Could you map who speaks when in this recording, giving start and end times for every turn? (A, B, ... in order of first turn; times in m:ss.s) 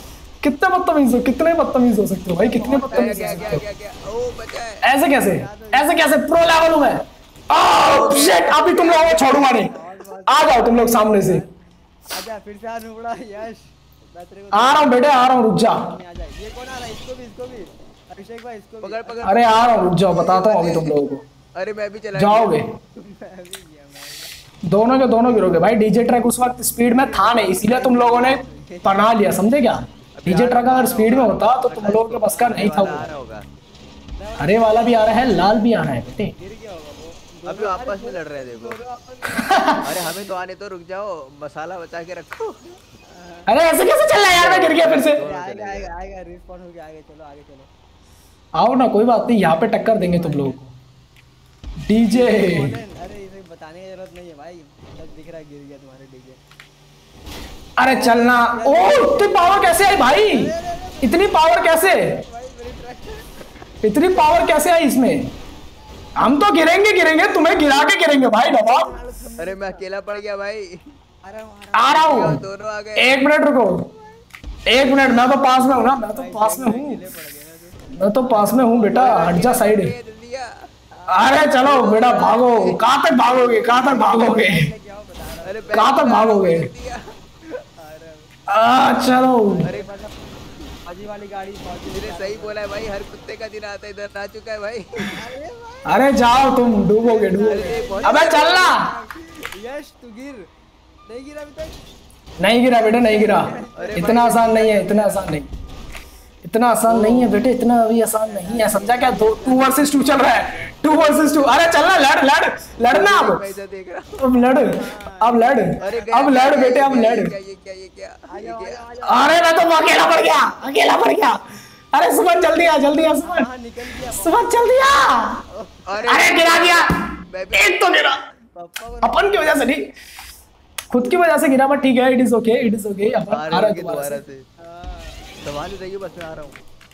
0:00.4-0:03.6 A
0:02.3-0:03.6 B
0:02.9-0:04.8 C
0:04.8-0:09.7 A
0:05.1-0:06.1 B
0:08.0-0:11.5 B
0:10.3-0:11.4 A
0:12.1-0:19.7 B
0:14.5-0:15.8 A
0:18.8-0:21.0 C
0:19.2-0:21.2 A
0:21.6-0:22.6 C
0:22.2-0:22.7 A
0:23.0-0:24.3 B
0:24.6-0:33.1 A
0:26.8-0:29.2 B
0:30.2-0:33.5 C
0:32.3-0:33.1 B
0:34.2-0:35.8 B
0:34.4-0:36.4 A
0:36.3-0:40.3 B
0:37.5-0:38.8 C
0:39.4-0:39.9 A
0:39.8-0:42.8 C
0:43.1-0:43.5 B
0:43.5-0:45.2 A
0:44.3-0:45.9 C
0:45.1-0:47.7 B
0:48.6-0:50.6 A
0:49.4-0:50.6 B
0:51.9-0:52.8 A
0:52.1-0:56.4 B
0:57.8-1:02.2 A
0:57.9-1:03.4 B
1:03.8-1:05.3 A
1:06.2-1:08.9 A
1:07.4-1:09.9 B
1:09.4-1:10.9 C
1:11.2-1:12.2 B
1:11.8-1:12.4 A
1:11.9-1:13.2 C
1:13.0-1:13.9 A
1:13.9-1:14.2 B
1:14.6-1:17.0 A
1:14.9-1:15.4 C
1:15.6-1:19.4 B
1:17.9-1:19.9 A
1:18.8-1:20.7 C
1:20.9-1:26.0 B
1:21.1-1:24.7 A
1:21.9-1:22.5 C
1:25.4-1:27.2 C
1:25.7-1:26.7 A
1:27.8-1:28.3 B
1:28.5-1:29.7 A
1:29.2-1:32.7 B
1:29.6-1:29.9 C
1:31.9-1:35.2 C
1:35.0-1:40.5 B
1:35.9-1:38.8 A
1:37.4-1:38.8 C
1:41.1-1:41.8 B
1:42.4-1:45.5 A
1:42.6-1:44.4 B
1:43.8-1:45.4 C
1:46.4-1:53.4 A
1:46.9-1:47.4 C
1:48.0-1:51.6 B
1:51.3-1:51.6 C
1:52.8-1:54.3 C
1:54.2-1:57.3 A
1:54.3-1:56.4 B
1:55.8-1:58.9 C
1:58.3-2:00.8 B
1:59.1-2:01.4 A
2:01.9-2:03.5 A
2:02.6-2:06.0 B
2:04.1-2:05.4 A
2:05.9-2:07.8 C
2:06.0-2:08.2 A
2:08.5-2:09.8 B
2:09.0-2:09.9 A
2:10.9-2:14.2 A
2:13.3-2:14.5 C
2:14.6-2:15.3 B
2:15.4-2:16.6 C